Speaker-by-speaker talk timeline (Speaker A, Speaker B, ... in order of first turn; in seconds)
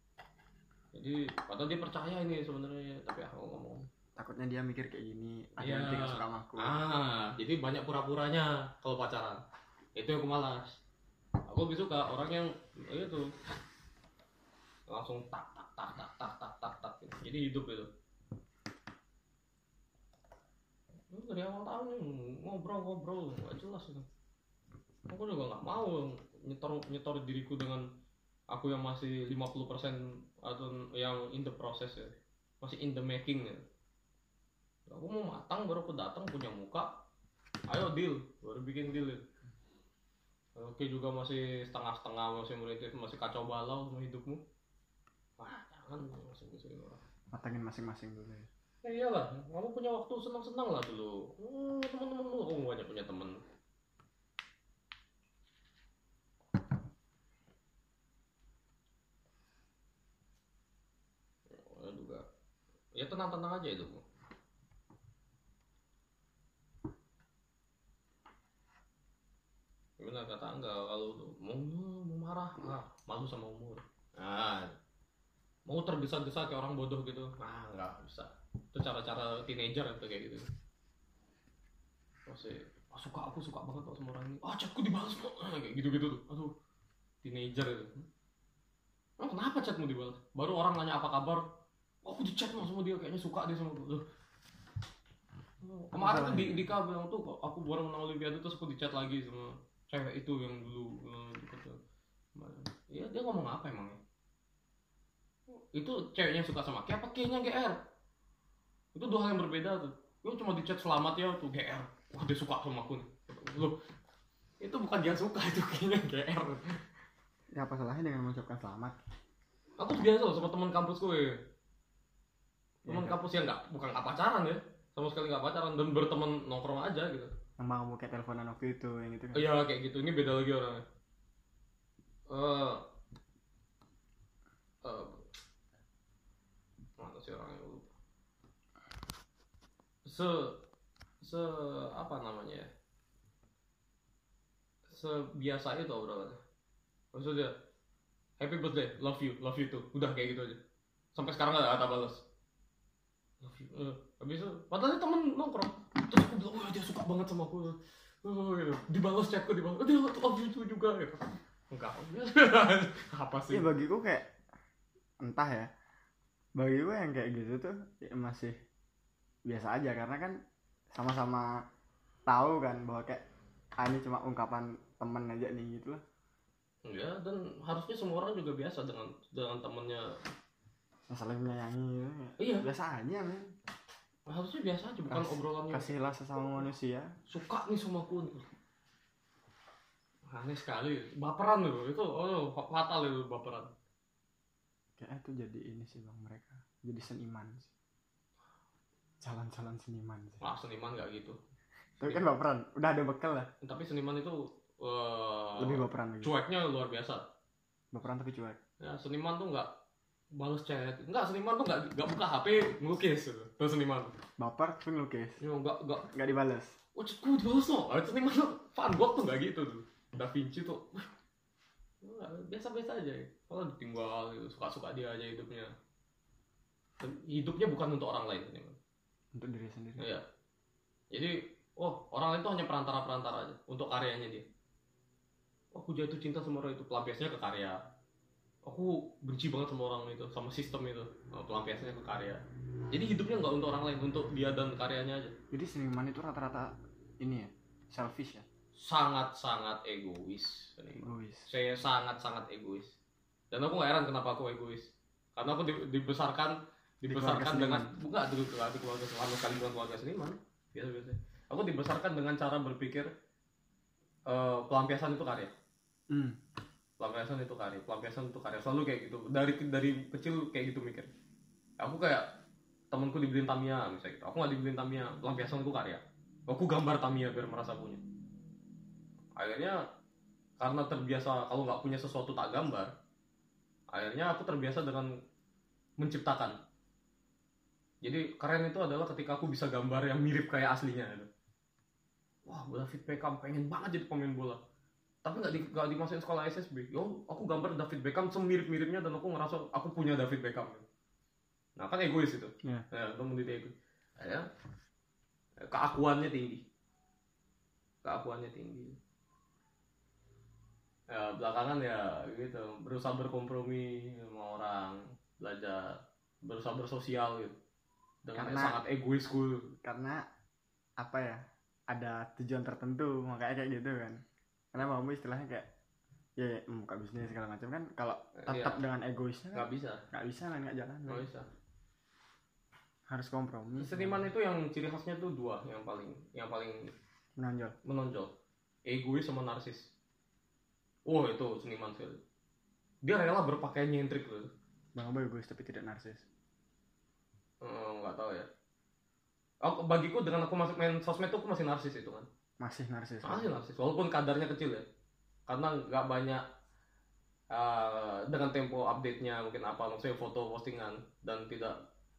Speaker A: 0.9-3.9, 5.6-9.4, 9.9-10.8, 11.5-13.3, 14.9-17.9, 21.1-24.1, 25.1-27.9, 28.5-33.6, 34.9-36.9, 37.7-39.2, 40.5-44.4, 45.4-47.0, 48.8-53.4, 61.6-62.2, 62.9-64.0, 70.0-74.8, 75.7-80.5, 82.3-86.5, 87.2-88.0, 89.2-91.4, 92.0-94.0, 95.6-101.8, 102.3-104.0, 105.7-107.8, 108.9-113.8, 114.6-116.8, 119.8-121.4, 122.9-127.3, 129.3-130.8, 132.3-132.8, 134.8-135.2, 137.0-137.9, 140.1-140.6, 141.2-142.7, 144.9-146.4, 147.1-147.5, 148.4-150.6, 151.1-152.2, 153.4-163.7, 176.8-180.1, 182.4-182.6, 184.3-186.0, 187.3-188.5, 190.3-193.7, 200.4-201.3, 202.0-202.3, 203.6-207.2, 208.8-209.7, 210.3-214.1, 215.4-216.1, 216.9-221.1, 222.0-225.7, 227.0-228.8, 230.0-230.2, 231.1-234.4, 235.7-237.8, 238.6-245.3, 248.8-252.9, 253.5-263.1, 264.3-265.5, 267.0-271.1, 271.8-272.2, 272.9-278.0, 279.4-279.8, 280.6-282.9, 283.9-285.1, 286.0-286.5, 288.0-291.3, 292.5-294.6, 295.2-300.8, 301.8-304.5, 305.6-306.6, 308.0-309.0, 311.1-317.6, 318.2-319.7, 328.4-328.8, 329.5-330.0, 331.1-331.5, 333.8-336.9, 337.8-338.3, 338.9-339.9, 341.1-342.2, 343.0-344.5, 347.6-348.5, 349.6-352.3, 353.2-354.8, 355.5-356.4, 357.5-361.8
Speaker B: 4.2-6.8, 47.3-48.5, 96.0-96.7, 117.5-119.0, 122.8-123.2, 127.6-129.5, 163.5-164.2, 165.2-165.7, 166.6-168.5, 169.5-170.3, 170.9-171.5, 172.3-173.2, 173.8-176.0, 181.1-183.5, 185.1-187.1, 195.0-197.7, 199.2-200.4, 202.0-203.5, 205.6-206.3, 207.9-208.6, 214.4-215.4, 216.1-216.8, 229.3-230.1, 245.5-248.4, 251.0-251.5, 257.1-257.9, 266.1-266.4, 318.4-318.8, 319.8-320.2, 321.0-324.2, 324.7-325.7, 326.4-331.3, 333.1-334.3, 337.4-337.8, 344.9-346.2, 352.6-353.6